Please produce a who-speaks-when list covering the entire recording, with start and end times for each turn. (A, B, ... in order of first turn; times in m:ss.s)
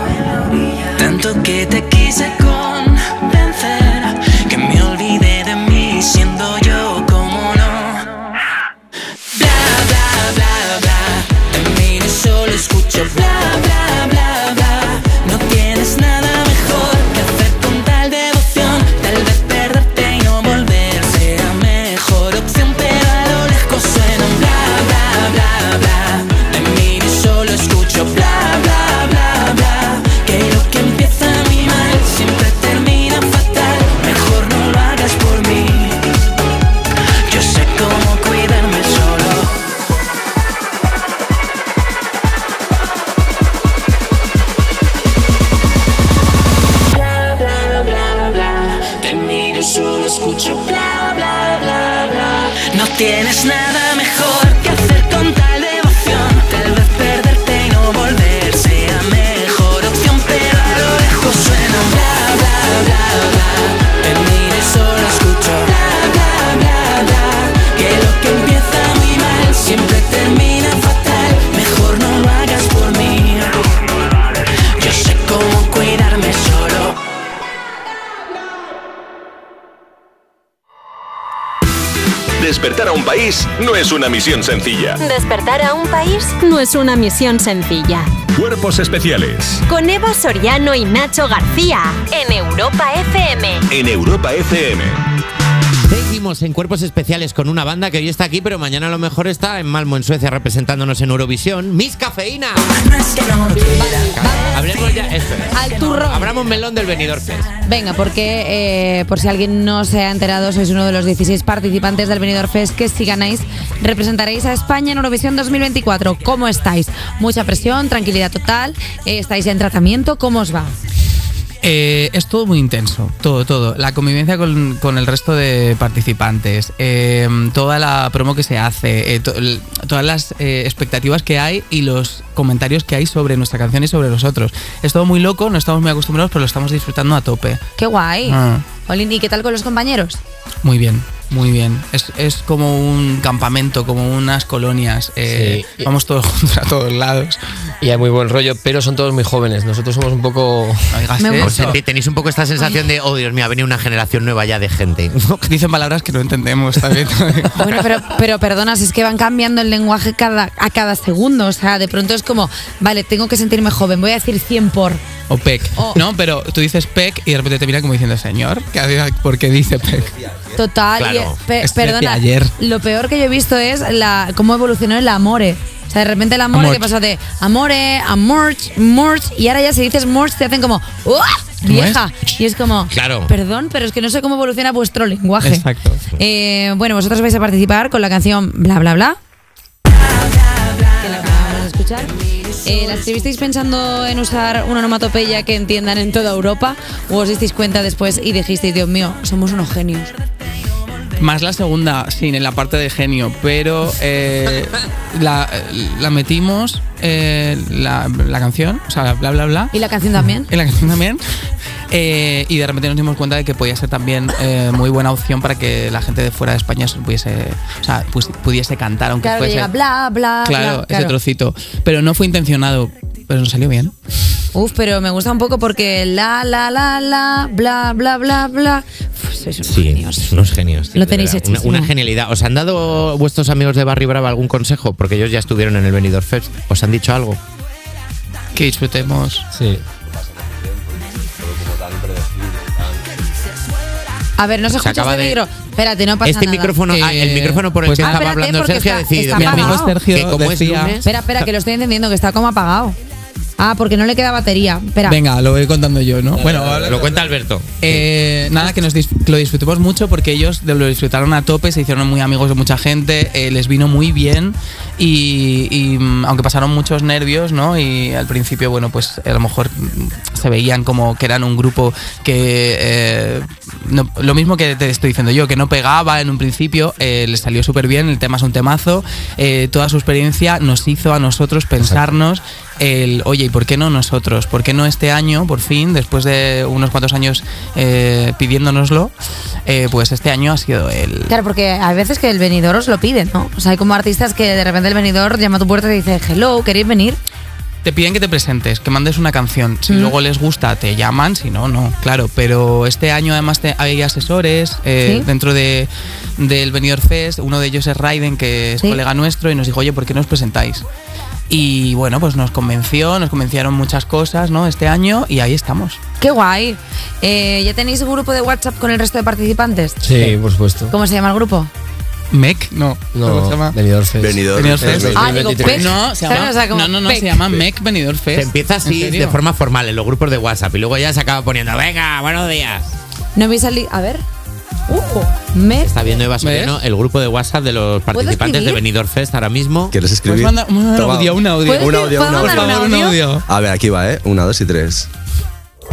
0:00.8-0:08.2 A
0:09.4-0:36.1 A
0:37.3-0:39.5 A
0:47.4-1:13.7 A
1:14.8-1:17.0 A
1:22.4-1:25.0 B
1:25.0-1:28.1 C
1:28.4-1:29.6 B
1:29.7-1:33.6 C
1:33.7-1:35.0 B
1:35.9-1:42.8 D
1:43.7-1:47.5 D
1:43.8-1:44.5 E
1:45.5-1:46.3 E
1:47.7-2:00.8 E
2:01.6-2:17.6 F
2:17.8-2:20.2 E
2:18.2-2:18.6 F
2:20.6-2:27.4 F
2:25.4-2:25.9 G
2:27.8-2:31.0 G
2:30.9-2:31.8 F
2:31.2-2:31.6 E
2:31.4-2:35.5 D
2:35.5-2:37.8 F
2:37.6-2:45.1 E
2:45.3-2:50.2 F
2:45.8-2:46.0 E
2:50.6-3:09.2 E
2:51.0-2:51.4 D
2:51.6-2:52.6 F
2:56.5-2:56.9 F
3:01.6-3:02.0 F
3:02.9-3:03.3 D
3:05.4-3:06.0 F
3:11.0-3:20.1 E
3:21.2-3:29.7 F
3:29.7-3:30.5 E
3:30.4-3:31.2 F
3:31.9-3:39.7 F
3:39.2-3:41.2 E
3:40.4-3:43.9 F
3:44.5-3:50.4 E
3:49.7-3:57.4 D
3:50.9-3:51.9 E
3:58.6-3:59.5 F
3:59.5-3:59.8 G
4:00.4-4:02.9 H
4:04.4-4:06.8 E
4:04.8-4:05.4 D
4:06.2-4:11.1 D
4:06.9-4:08.2 F
4:08.0-4:10.0 E
4:09.3-4:11.0 F
4:11.0-4:13.0 E
4:13.6-4:15.2 E
4:15.0-4:17.1 F
4:16.4-4:18.0 D
4:17.8-4:49.1 F
4:49.7-4:51.4 F
4:51.3-4:57.2 E
4:57.8-5:10.8 F
4:59.9-5:00.2 E
5:05.0-5:05.3 E
5:11.5-5:16.0 F
5:16.2-5:20.0 E
5:20.0-5:20.9 G
5:20.1-5:20.4 F
5:20.9-5:21.7 E
5:22.3-5:23.8 F
5:23.1-5:25.9 G
5:24.2-5:25.3 H
5:24.5-5:29.4 F
5:25.1-5:27.4 E
5:28.3-5:32.9 D
5:33.4-5:34.2 E
5:34.9-5:36.0 E
5:35.8-5:40.0 D
5:36.4-5:36.8 F
5:38.1-5:38.8 E
5:39.9-5:42.8 H
5:40.2-5:43.5 F
5:41.6-5:43.2 E
5:43.5-5:45.1 H